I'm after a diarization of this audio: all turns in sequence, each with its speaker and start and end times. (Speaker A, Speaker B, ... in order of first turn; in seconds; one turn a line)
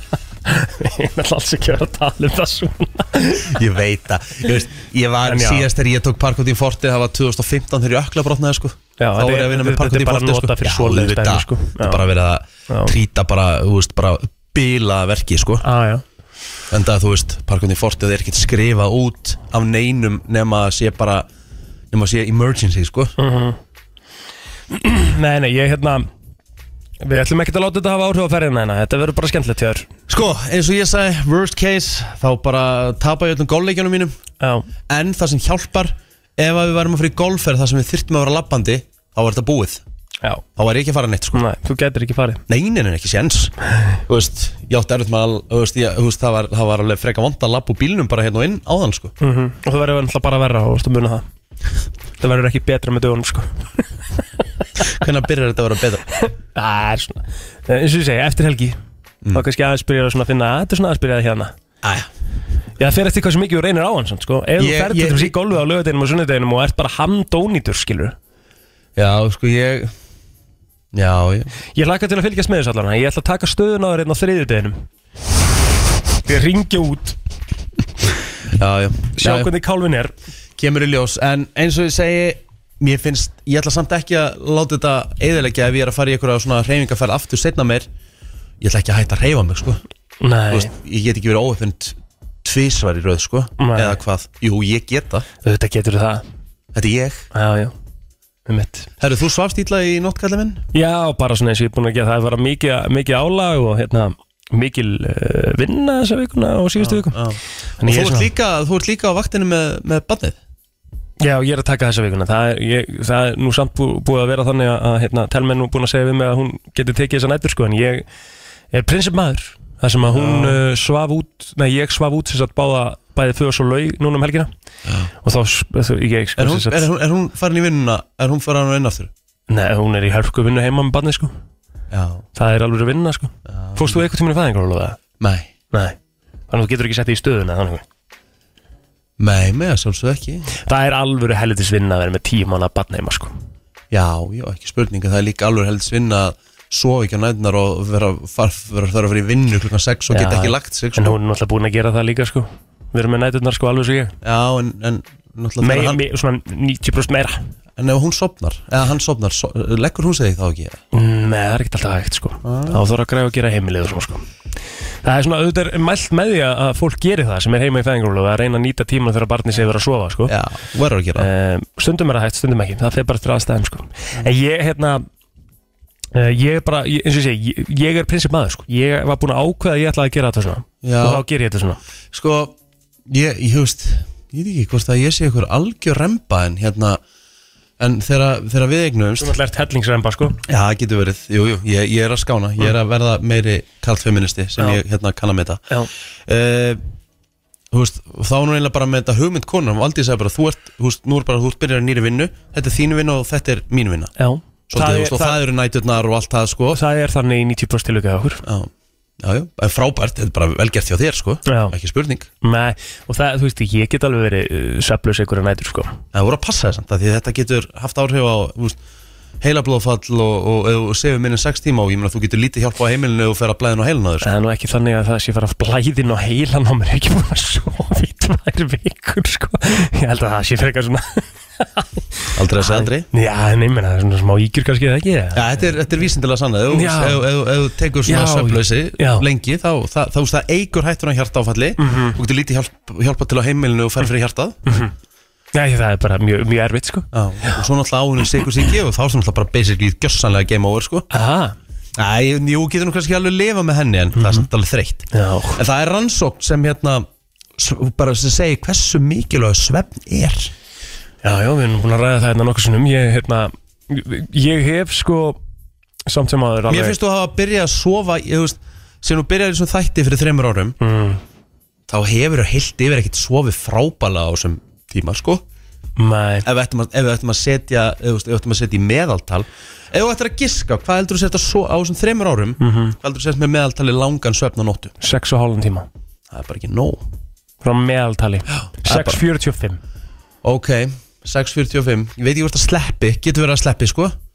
Speaker A: 0.5-3.6
Speaker B: 3.5-15.6
Speaker A: 5.2-5.7
Speaker A: 9.0-12.0
Speaker A: 15.6-16.0
Speaker B: 16.7-21.3
Speaker B: 21.9-23.1
Speaker A: 23.2-23.6
Speaker A: 24.7-26.1
Speaker A: 27.0-29.9
Speaker B: 30.1-34.1
Speaker A: 34.4-34.7
Speaker B: 34.9-39.8
Speaker B: 40.6-41.5
Speaker A: 41.3-42.4
Speaker B: 42.5-43.5
Speaker B: 44.1-49.1
Speaker A: 49.2-51.2
Speaker A: 52.2-53.5
Speaker B: 54.8-56.0
Speaker A: 56.2-58.8
Speaker A: 59.3-61.5
Speaker B: 61.8-62.1
Speaker A: 62.8-68.2
Speaker B: 64.6-65.3
Speaker B: 69.0-69.9
Speaker B: 70.9-71.5
Speaker A: 71.8-74.8
Speaker A: 76.2-77.2
Speaker B: 78.5-79.5
Speaker A: 79.2-80.1
Speaker B: 80.6-87.9
Speaker B: 88.6-89.8
Speaker A: 90.2-90.7
Speaker B: 90.5-95.3
Speaker A: 93.6-94.0
Speaker A: 95.4-96.2
Speaker B: 96.7-97.3
Speaker A: 97.3-97.7
Speaker A: 98.5-98.9
Speaker B: 99.0-100.7
Speaker A: 100.7-107.2
Speaker B: 106.8-110.4
Speaker A: 107.8-108.3
Speaker A: 111.2-118.0
Speaker A: 118.7-124.5
Speaker B: 120.1-120.6
Speaker A: 125.2-126.9
Speaker B: 126.4-129.1
Speaker A: 129.5-131.3
Speaker B: 131.9-132.2
Speaker A: 132.3-135.0
Speaker B: 133.5-134.0
Speaker B: 135.2-135.5
Speaker A: 135.7-136.0
Speaker A: 136.5-137.8
Speaker B: 139.2-140.5
Speaker A: 140.5-143.3
Speaker B: 143.9-151.2
Speaker A: 150.1-154.1
Speaker B: 154.2-156.0
Speaker A: 155.6-157.4
Speaker B: 157.8-160.8
Speaker A: 160.9-164.2
Speaker B: 162.4-162.8
Speaker A: 165.0-170.3
Speaker B: 170.3-171.3
Speaker A: 171.2-175.0
Speaker A: 176.1-181.8
Speaker B: 180.8-181.2
Speaker B: 182.1-182.5
Speaker B: 183.1-187.0
Speaker B: 187.8-189.3
Speaker A: 189.2-190.4
Speaker B: 190.5-195.6
Speaker B: 196.3-196.8
Speaker B: 197.7-204.1
Speaker A: 204.2-205.4
Speaker B: 204.7-206.8
Speaker A: 206.7-208.4
Speaker B: 208.4-212.3
Speaker A: 211.5-211.7
Speaker A: 212.4-215.9
Speaker B: 216.1-218.8
Speaker B: 219.4-224.3
Speaker A: 224.2-232.0
Speaker B: 232.4-233.1
Speaker A: 232.6-235.8
Speaker B: 235.3-244.8
Speaker A: 236.7-237.2
Speaker A: 238.1-239.2
Speaker A: 241.8-242.2
Speaker A: 244.7-244.9
Speaker A: 245.5-247.6
Speaker B: 247.1-251.1
Speaker A: 251.1-251.6
Speaker B: 252.0-260.5
Speaker A: 254.2-254.5
Speaker A: 255.1-255.6
Speaker A: 261.2-265.4
Speaker A: 266.1-267.0
Speaker B: 266.7-270.8
Speaker A: 270.8-271.2
Speaker B: 271.9-275.4
Speaker A: 276.0-276.5
Speaker B: 276.4-284.9
Speaker A: 282.6-283.0
Speaker A: 285.0-285.9
Speaker B: 286.3-287.1
Speaker A: 287.6-289.8
Speaker B: 288.5-289.2
Speaker B: 290.4-294.1